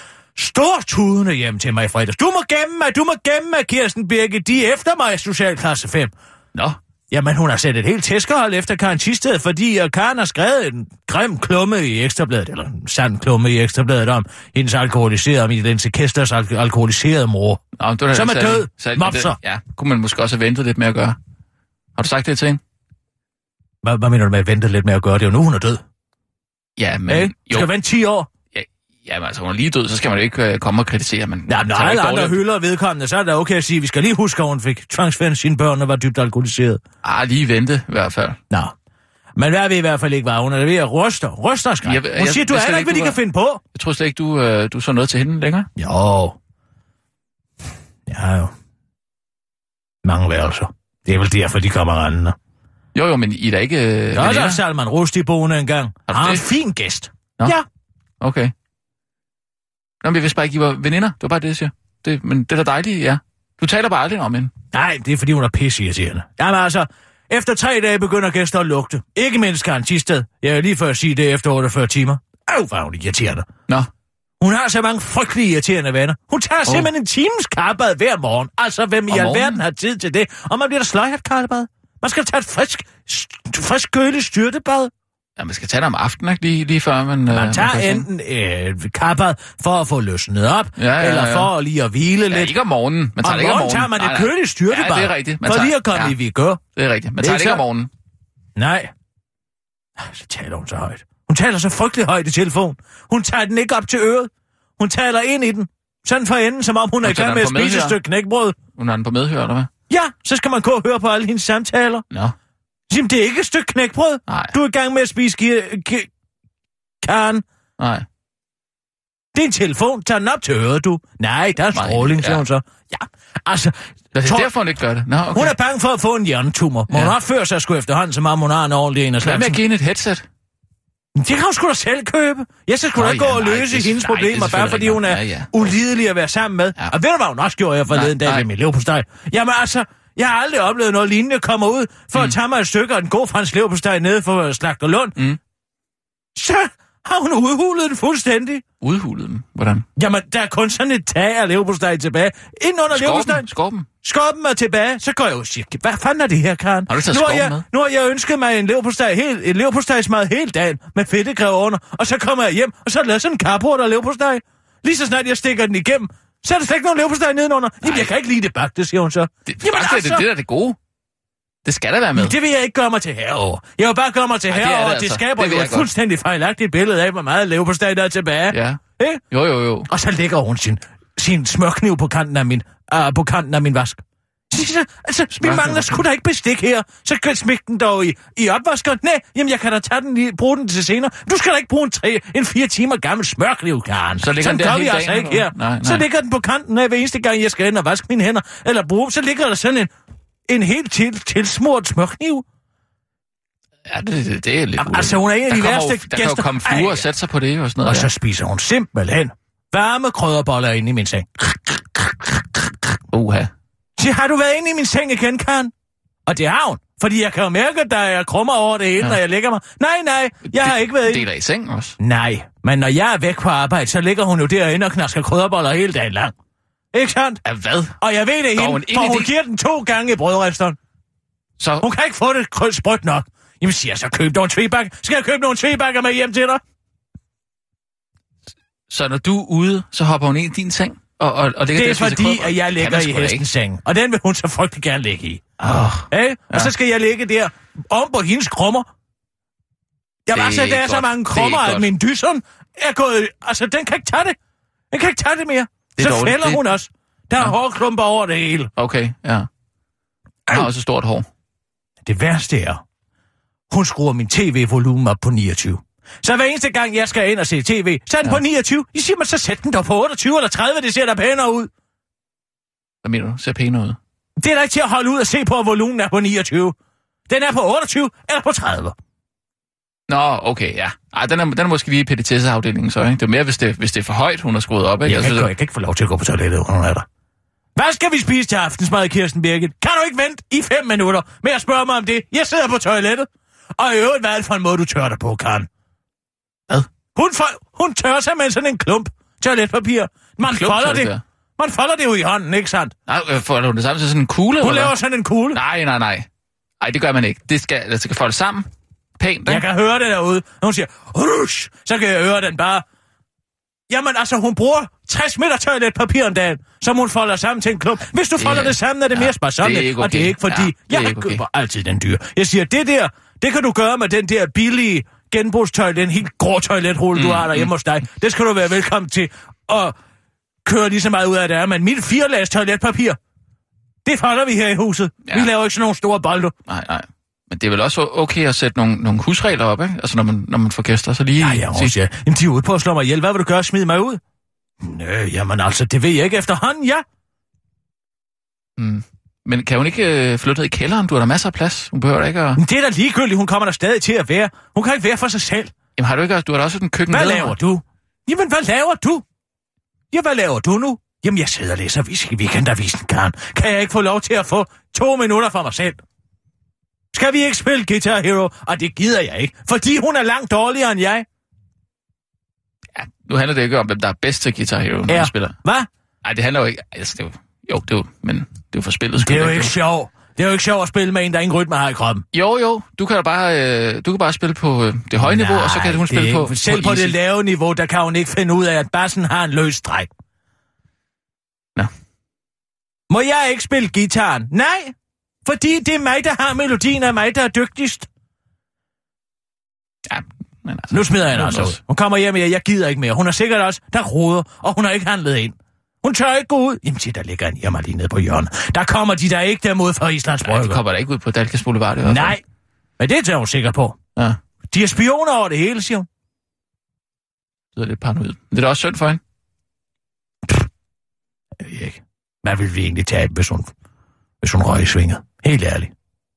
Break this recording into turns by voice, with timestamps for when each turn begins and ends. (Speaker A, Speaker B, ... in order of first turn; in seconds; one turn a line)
Speaker A: 0.3-6.1
Speaker A: 7.1-19.4
Speaker B: 17.8-21.2
Speaker B: 21.9-22.6
Speaker A: 23.8-25.8
Speaker B: 26.8-27.7
Speaker A: 27.1-28.3
Speaker B: 28.5-32.4
Speaker A: 31.5-36.8
Speaker B: 37.0-38.4
Speaker A: 39.4-43.6
Speaker B: 41.8-43.2
Speaker B: 43.7-45.7
Speaker A: 45.8-46.4
Speaker A: 48.1-48.5
Speaker A: 50.0-52.4
Speaker B: 52.9-54.6
Speaker A: 54.1-57.6
Speaker B: 56.1-56.5
Speaker B: 58.2-58.5
Speaker B: 60.0-64.5
Speaker A: 64.7-73.5
Speaker A: 74.4-84.9
Speaker B: 79.1-79.6
Speaker B: 85.4-88.1
Speaker A: 87.3-92.6
Speaker B: 90.8-91.5
Speaker B: 92.3-96.1
Speaker A: 93.2-96.6
Speaker B: 96.7-97.9
Speaker A: 97.2-97.6
Speaker A: 98.5-98.9
Speaker A: 100.0-108.6
Speaker B: 107.0-108.0
Speaker B: 108.8-109.7
Speaker A: 109.9-112.0
Speaker A: 112.9-116.1
Speaker B: 114.3-114.5
Speaker A: 117.0-117.4
Speaker B: 117.8-118.0
Speaker A: 119.3-124.5
Speaker B: 121.7-122.4
Speaker B: 124.1-125.5
Speaker A: 125.3-129.6
Speaker B: 126.9-127.1
Speaker B: 129.2-130.2
Speaker A: 131.2-145.2
Speaker B: 132.9-135.7
Speaker B: 137.9-138.5
Speaker A: 146.3-148.6
Speaker B: 148.8-149.8
Speaker A: 149.9-153.5
Speaker B: 152.9-153.9
Speaker A: 154.0-170.3
Speaker B: 156.9-157.6
Speaker B: 167.8-168.1
Speaker B: 169.5-170.8
Speaker B: 171.6-172.3
Speaker A: 172.1-179.2
Speaker B: 174.5-175.9
Speaker B: 178.5-179.9
Speaker A: 179.9-199.9
Speaker B: 185.4-186.0
Speaker B: 194.2-196.0
Speaker A: 200.5-202.4
Speaker B: 203.9-208.1
Speaker A: 204.8-207.1
Speaker A: 207.8-212.9
Speaker B: 213.1-213.5
Speaker A: 214.0-215.7
Speaker A: 216.2-221.2
Speaker B: 220.5-222.0
Speaker A: 222.0-226.3
Speaker A: 226.9-227.4
Speaker B: 227.4-227.9
Speaker A: 228.0-230.8
Speaker B: 228.5-229.3
Speaker B: 231.6-231.9
Speaker A: 231.8-236.6
Speaker B: 238.9-243.4
Speaker A: 241.7-245.4
Speaker B: 245.6-246.7
Speaker A: 246.1-248.9
Speaker A: 250.2-254.4
Speaker B: 250.3-251.9
Speaker A: 254.9-258.7
Speaker B: 256.0-256.6
Speaker B: 258.8-259.5
Speaker B: 260.5-261.3
Speaker A: 262.0-262.8
Speaker A: 263.7-271.7
Speaker B: 273.0-274.0
Speaker A: 274.4-276.8
Speaker A: 277.3-278.9
Speaker B: 280.1-285.5
Speaker A: 285.0-287.1
Speaker A: 287.8-295.7
Speaker A: 297.1-302.9
Speaker B: 300.4-301.2
Speaker B: 303.1-304.9
Speaker A: 304.6-305.6
Speaker B: 305.5-306.3
Speaker B: 306.8-308.7
Speaker B: 309.2-309.6
Speaker A: 309.5-312.8
Speaker A: 313.9-329.9
Speaker B: 318.4-321.4
Speaker B: 327.1-327.7
Speaker A: 330.6-333.2
Speaker A: 334.0-336.5
Speaker B: 336.7-341.9
Speaker A: 341.4-344.2
Speaker A: 344.8-347.0
Speaker B: 348.8-352.6
Speaker A: 352.6-355.7
Speaker B: 356.0-357.6
Speaker A: 357.1-359.2
Speaker A: 360.1-366.0
Speaker A: 367.1-371.3
Speaker B: 372.9-375.6
Speaker A: 375.1-375.9
Speaker B: 376.2-379.7
Speaker A: 379.2-382.2
Speaker B: 382.3-387.1
Speaker A: 385.2-390.1
Speaker A: 393.1-398.1
Speaker B: 400.1-401.8
Speaker A: 400.9-410.8
Speaker B: 410.4-412.4
Speaker A: 412.0-412.4
Speaker A: 413.0-414.0
Speaker A: 414.7-416.1
Speaker B: 417.8-419.2
Speaker A: 421.6-423.7
Speaker A: 424.4-425.9